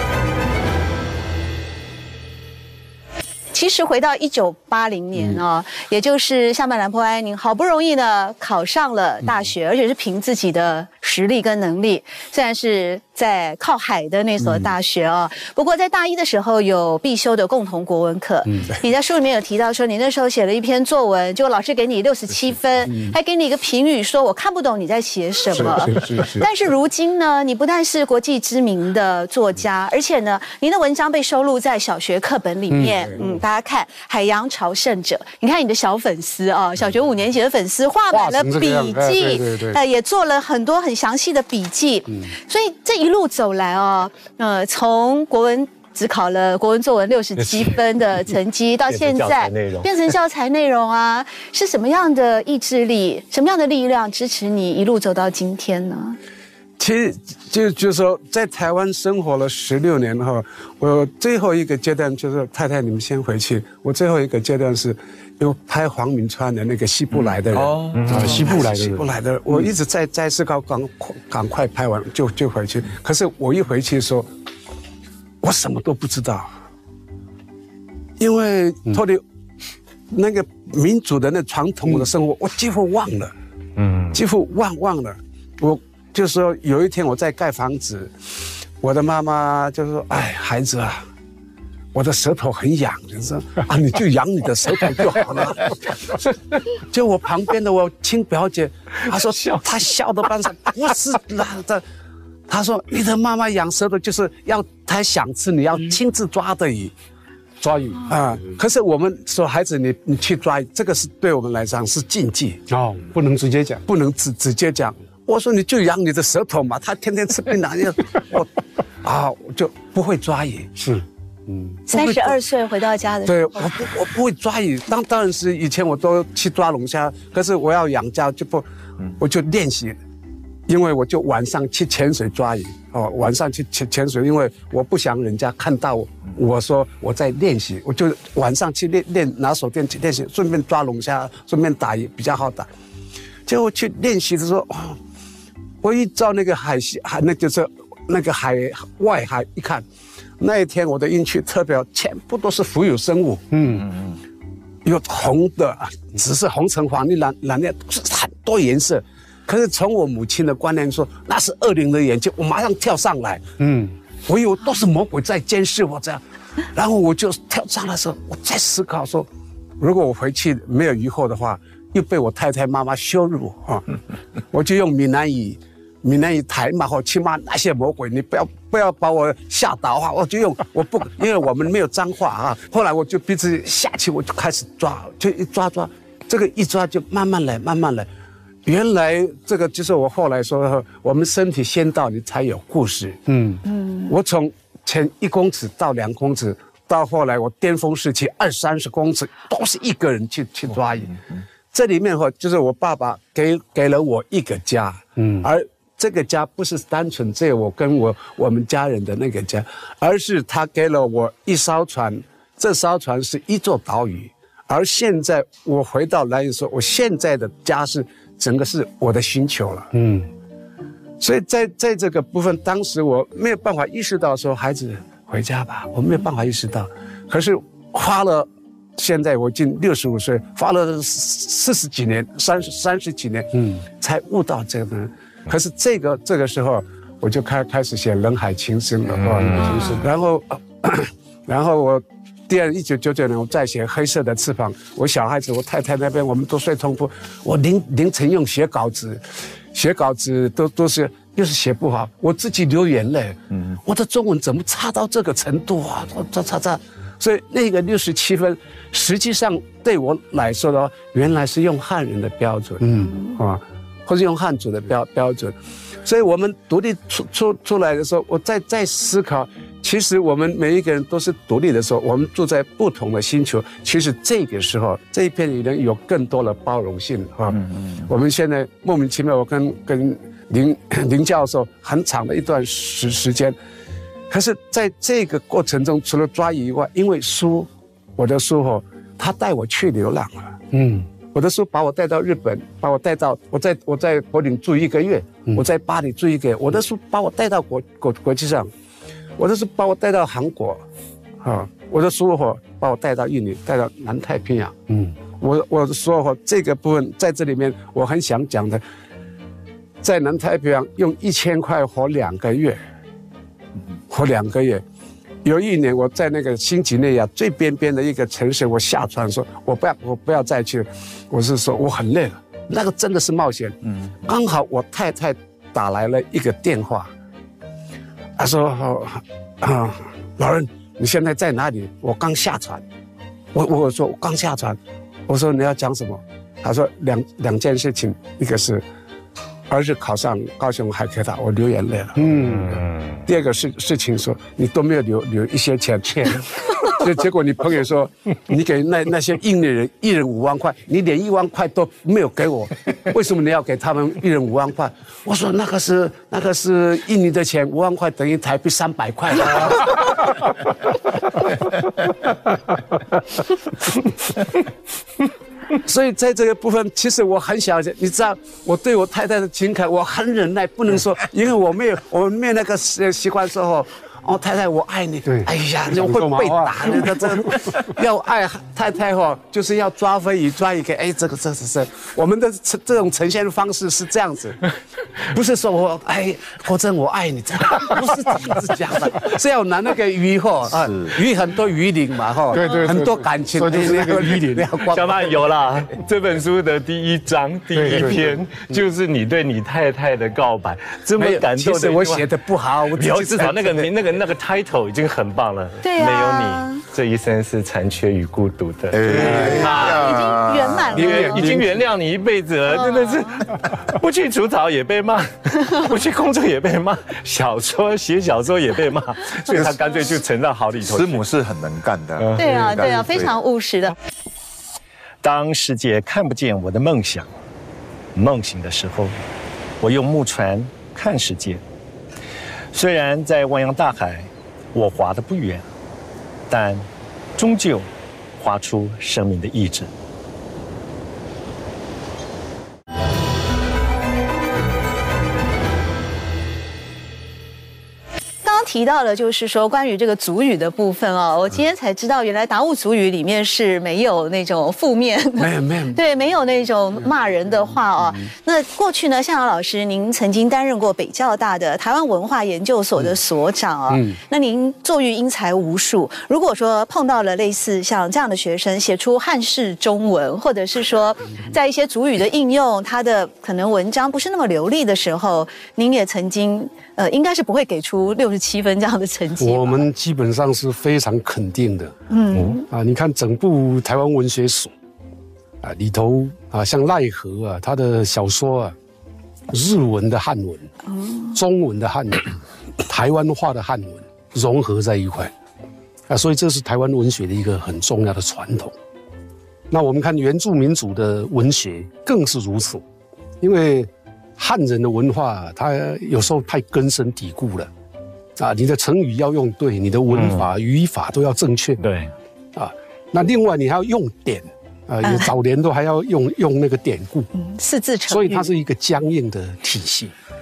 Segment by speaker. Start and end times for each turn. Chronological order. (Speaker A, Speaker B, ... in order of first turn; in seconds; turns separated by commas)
Speaker A: 3.5-56.2, Speaker B: 25.6-26.5, Speaker B: 32.9-33.2, Speaker C: 38.1-39.7, Speaker D: 48.9-49.9, Speaker B: 56.8-74.3, Speaker E: 67.2-68.6, Speaker D: 67.9-68.3, Speaker C: 68.1-69.1, Speaker B: 75.4-76.5, Speaker B: 78.2-79.2, Speaker B: 80.1-83.3, Speaker D: 83.8-84.2, Speaker B: 84.1-88.2, Speaker B: 88.8-91.0, Speaker B: 91.9-96.2, Speaker B: 96.7-101.8, Speaker B: 102.5-106.9, Speaker C: 107.6-108.1, Speaker B: 108.0-112.6, Speaker C: 112.7-113.8, Speaker B: 113.8-118.5, Speaker B: 119.0-120.8, Speaker C: 120.8-121.7, Speaker B: 121.9-122.4, Speaker A: 121.9-123.9, Speaker B: 123.2-128.6, Speaker B: 129.2-130.0, Speaker B: 130.7-142.7, Speaker B: 143.5-145.0, Speaker B: 145.8-149.8, Speaker B: 150.4-153.8, Speaker C: 153.5-153.8, Speaker B: 154.8-163.5, Speaker C: 163.6-163.9, Speaker B: 164.2-166.2, Speaker B: 166.7-169.3, Speaker B: 169.8-173.9, Speaker B: 174.5-188.1, Speaker B: 188.6-201.2, Speaker C: 193.3-193.6, Speaker A: 193.8-194.1, Speaker B: 201.7-219.9, Speaker C: 205.2-205.5, Speaker C: 219.9-220.3, Speaker B: 221.2-283.6, Speaker D: 239.3-239.7, Speaker B: 284.3-290.6, Speaker C: 290.7-291.1, Speaker B: 291.2-298.7, Speaker B: 299.4-300.8, Speaker B: 301.4-304.8, Speaker C: 304.9-305.1, Speaker B: 305.3-308.8, Speaker B: 310.0-312.8, Speaker B: 314.1-314.8, Speaker B: 315.4-327.1, Speaker B: 328.4-332.8, Speaker B: 333.5-338.8, Speaker B: 339.7-360.3, Speaker C: 342.1-342.7, Speaker D: 342.3-343.2, Speaker B: 365.7-384.6, Speaker C: 375.3-377.5, Speaker B: 385.2-395.3, Speaker C: 392.5-394.6, Speaker D: 394.9-402.3, Speaker B: 401.2-403.9, Speaker D: 402.9-421.2, Speaker A: 405.8-406.8, Speaker E: 408.9-411.1, Speaker B: 409.3-409.6, Speaker A: 409.4-411.6, Speaker B: 411.0-411.7, Speaker A: 412.7-413.4, Speaker E: 420.8-423.3, Speaker D: 422.2-422.8, Speaker A: 422.4-423.9, Speaker D: 425.2-427.3, Speaker D: 428.1-429.2, Speaker D: 429.8-431.6, Speaker D: 432.7-435.6, Speaker D: 436.5-436.9, Speaker D: 437.4-439.9, Speaker A: 448.4-479.9, Speaker B: 455.4-456.0, Speaker B: 463.9-464.2, Speaker C: 479.4-481.9, Speaker A: 482.1-482.6, Speaker C: 482.7-484.7, Speaker C: 485.6-488.8, Speaker C: 489.5-490.7, Speaker A: 490.9-491.3, Speaker C: 491.3-492.3, Speaker C: 492.8-495.3, Speaker C: 496.1-498.7, Speaker C: 499.7-502.8, Speaker C: 503.4-507.7, Speaker C: 508.4-511.8, Speaker D: 510.1-510.4, Speaker D: 511.8-512.1, Speaker C: 512.5-517.3, Speaker A: 517.3-518.5, Speaker C: 518.1-520.1